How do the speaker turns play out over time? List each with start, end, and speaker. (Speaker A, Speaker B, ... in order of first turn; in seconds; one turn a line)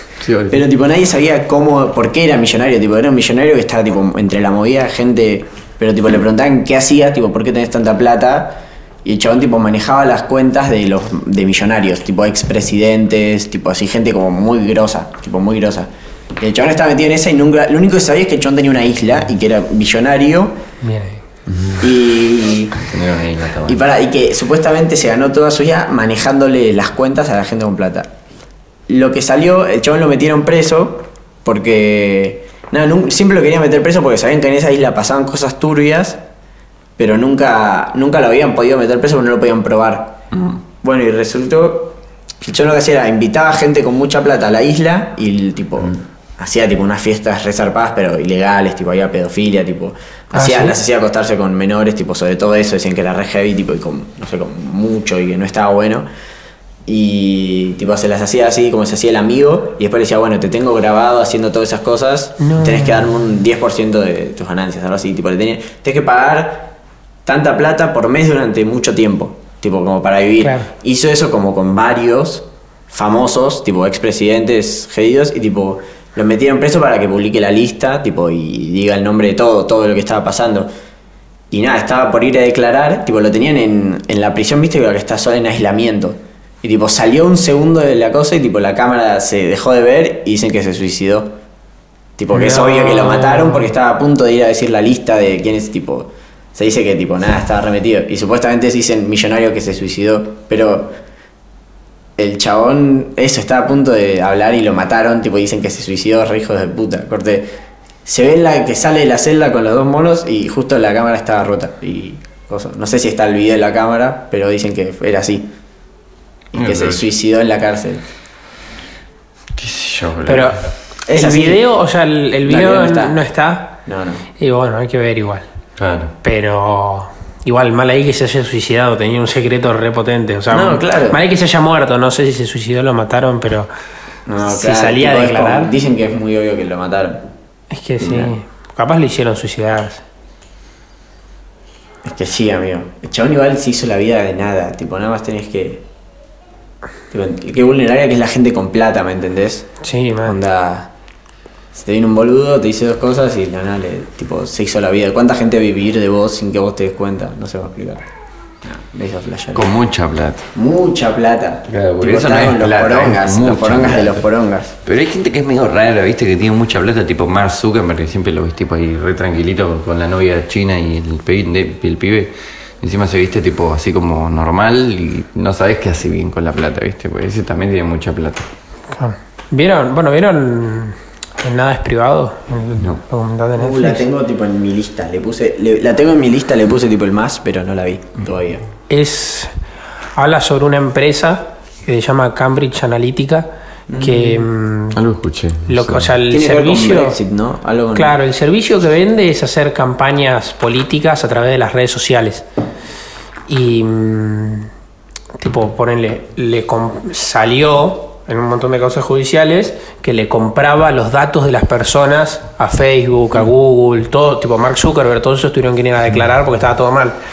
Speaker A: 0.2-0.6
Speaker B: 0.5-20.5
Speaker C: 20.8-21.2
Speaker A: 21.5-21.9
Speaker B: 21.8-22.8
Speaker A: 22.8-23.8
Speaker B: 23.7-28.1
Speaker B: 28.9-36.2
Speaker B: 37.0-40.2
Speaker B: 40.8-56.0
Speaker C: 50.3-50.8
Speaker B: 56.9-66.7
Speaker C: 62.4-63.1
Speaker B: 67.2-80.7
Speaker C: 70.4-70.7
Speaker B: 81.5-91.3
Speaker B: 92.2-100.9
Speaker C: 92.3-93.7
Speaker B: 102.2-107.5
Speaker B: 108.0-115.5
Speaker B: 116.5-118.0
Speaker A: 116.5-117.0
Speaker A: 119.5-120.5
Speaker C: 120.2-120.6
Speaker B: 121.1-121.6
Speaker C: 121.1-123.8
Speaker B: 122.5-123.2
Speaker B: 123.8-124.2
Speaker C: 124.4-125.4
Speaker A: 125.8-126.1
Speaker C: 126.2-133.7
Speaker B: 130.5-131.2
Speaker B: 134.3-137.2
Speaker C: 134.5-135.7
Speaker C: 137.7-140.0
Speaker B: 138.0-138.3
Speaker B: 142.0-145.8
Speaker B: 147.1-149.7
Speaker C: 149.8-150.4
Speaker B: 150.2-150.9
Speaker B: 151.7-158.0
Speaker B: 158.6-159.7
Speaker A: 159.5-160.4
Speaker B: 160.5-164.7
Speaker A: 161.7-164.2
Speaker A: 164.8-178.5
Speaker C: 178.9-184.1
Speaker B: 183.6-188.6
Speaker C: 188.9-189.5
Speaker C: 190.2-195.0
Speaker B: 193.9-194.5
Speaker A: 194.9-196.1
Speaker C: 195.7-197.2
Speaker B: 196.3-198.2
Speaker C: 197.9-202.4
Speaker C: 203.5-204.7
Speaker C: 205.4-217.2